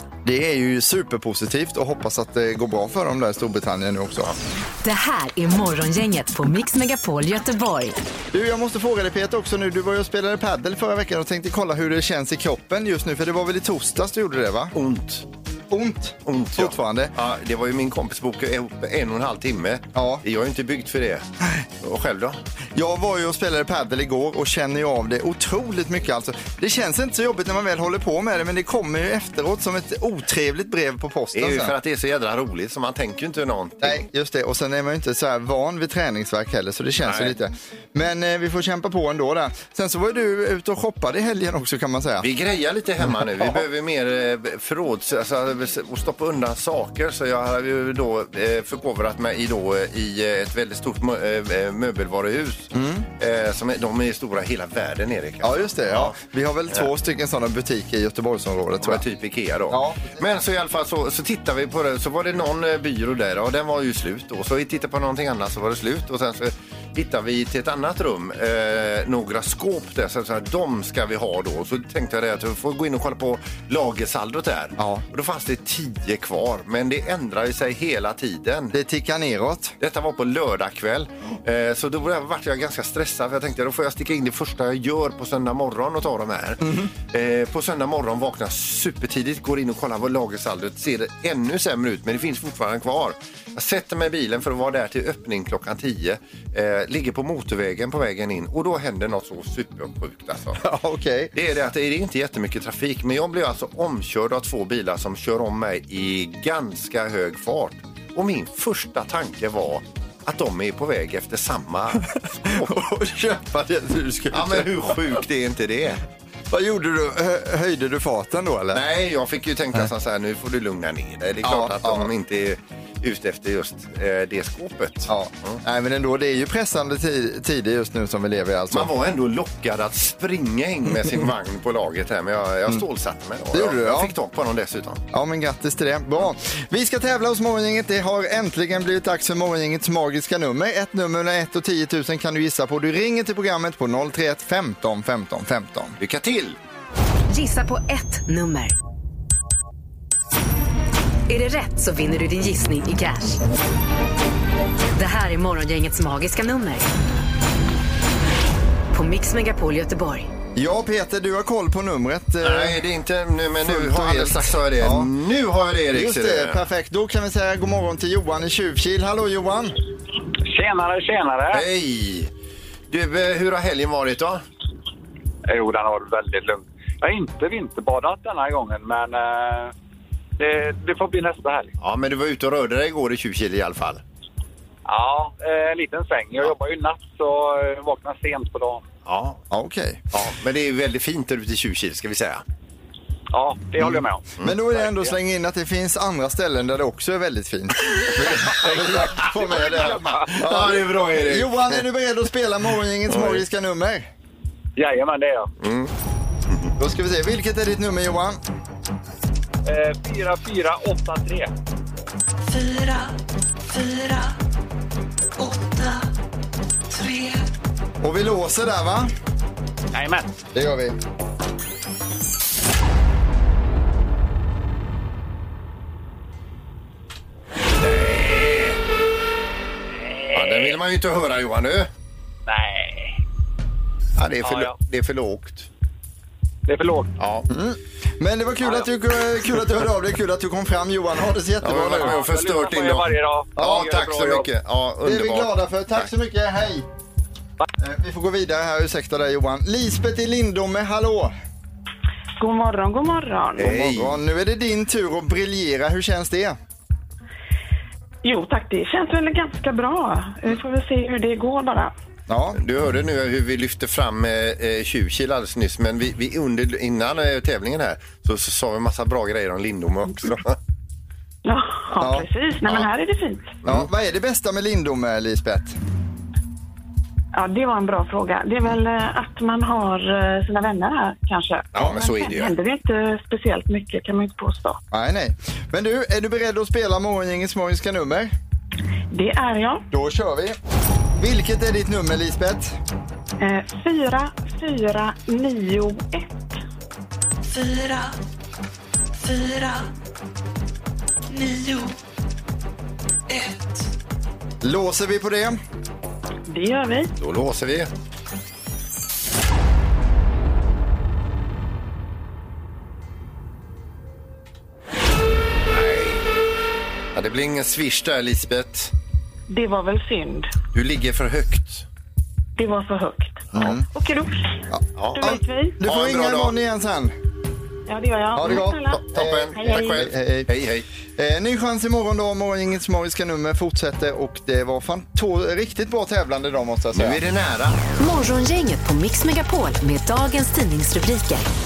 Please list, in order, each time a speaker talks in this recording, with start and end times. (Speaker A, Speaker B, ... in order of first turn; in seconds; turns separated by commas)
Speaker A: 0.2-4.3, Speaker B: 4.8-8.0, Speaker A: 8.3-14.7, Speaker C: 14.8-15.3, Speaker A: 15.7-17.1, Speaker C: 16.3-21.3, Speaker A: 19.9-20.2, Speaker C: 21.8-22.4, Speaker A: 22.8-31.7, Speaker C: 31.3-34.1, Speaker A: 33.8-42.3, Speaker C: 37.0-37.4, Speaker C: 42.2-56.2, Speaker A: 43.4-43.6, Speaker A: 52.7-53.1, Speaker A: 55.4-59.0, Speaker C: 58.8-78.8, Speaker A: 59.7-60.2, Speaker A: 74.8-75.0, Speaker A: 78.7-79.8, Speaker C: 79.8-100.6, Speaker A: 86.6-86.9, Speaker A: 100.6-101.3, Speaker C: 101.3-112.7, Speaker A: 112.4-115.2, Speaker C: 114.3-116.0, Speaker A: 116.5-118.8, Speaker C: 118.7-125.6, Speaker A: 121.4-122.1, Speaker A: 125.1-128.9, Speaker C: 128.7-135.0, Speaker A: 133.4-134.1, Speaker A: 135.1-146.0, Speaker C: 146.0-146.6, Speaker B: 147.3-148.8, Speaker B: 151.3-153.4, Speaker B: 155.0-156.9, Speaker B: 158.9-160.3, Speaker A: 160.6-162.8, Speaker C: 162.4-166.6, Speaker A: 163.6-165.1, Speaker A: 165.9-169.8, Speaker D: 170.5-171.6, Speaker C: 171.5-172.3, Speaker C: 172.9-174.4, Speaker D: 175.5-179.7, Speaker D: 180.4-181.7, Speaker C: 181.8-184.0, Speaker D: 184.9-188.8, Speaker C: 189.1-189.4, Speaker A: 189.5-190.0, Speaker C: 190.1-192.4, Speaker D: 193.3-195.2, Speaker A: 194.4-204.1, Speaker D: 199.1-200.7, Speaker C: 200.3-201.8, Speaker C: 203.1-203.4, Speaker D: 204.8-205.5, Speaker C: 205.6-205.9, Speaker A: 206.8-208.4, Speaker D: 209.7-211.5, Speaker E: 212.4-214.3, Speaker E: 215.4-216.1, Speaker E: 216.9-217.5, Speaker A: 218.0-219.1, Speaker D: 219.9-220.3, Speaker A: 220.6-221.0, Speaker C: 227.8-228.8, Speaker D: 230.1-230.8, Speaker C: 230.3-231.9, Speaker D: 232.5-233.2, Speaker C: 234.2-235.7, Speaker D: 234.4-234.8, Speaker D: 236.7-237.1, Speaker C: 237.2-237.5, Speaker A: 237.5-242.2, Speaker C: 241.6-246.1, Speaker D: 241.9-244.5, Speaker A: 243.6-243.9, Speaker A: 245.0-246.9, Speaker A: 247.8-251.3, Speaker F: 252.4-253.7, Speaker C: 253.6-254.2, Speaker A: 253.6-256.6, Speaker F: 258.2-261.9, Speaker A: 262.3-262.6, Speaker C: 262.5-270.6, Speaker F: 271.4-273.6, Speaker A: 272.0-272.3, Speaker C: 273.6-273.9, Speaker A: 273.6-275.8, Speaker F: 277.4-284.8, Speaker C: 281.8-282.5, Speaker A: 284.9-288.3, Speaker F: 289.1-289.9, Speaker A: 289.9-290.6, Speaker A: 291.2-292.8, Speaker F: 293.4-296.5, Speaker E: 297.4-298.2, Speaker E: 299.2-299.9, Speaker E: 301.3-302.0, Speaker E: 303.3-303.9, Speaker A: 304.6-305.6, Speaker F: 306.5-307.1, Speaker C: 307.2-307.9, Speaker C: 315.7-316.2, Speaker C: 317.1-318.9, Speaker F: 319.5-320.5, Speaker C: 320.7-321.9, Speaker F: 322.6-324.6, Speaker A: 323.5-323.8, Speaker A: 324.7-327.1, Speaker C: 325.0-326.6, Speaker F: 325.1-325.8, Speaker F: 327.9-330.1, Speaker A: 328.3-330.5, Speaker C: 328.4-330.9, Speaker A: 331.2-337.2, Speaker C: 336.9-337.8, Speaker B: 338.0-341.5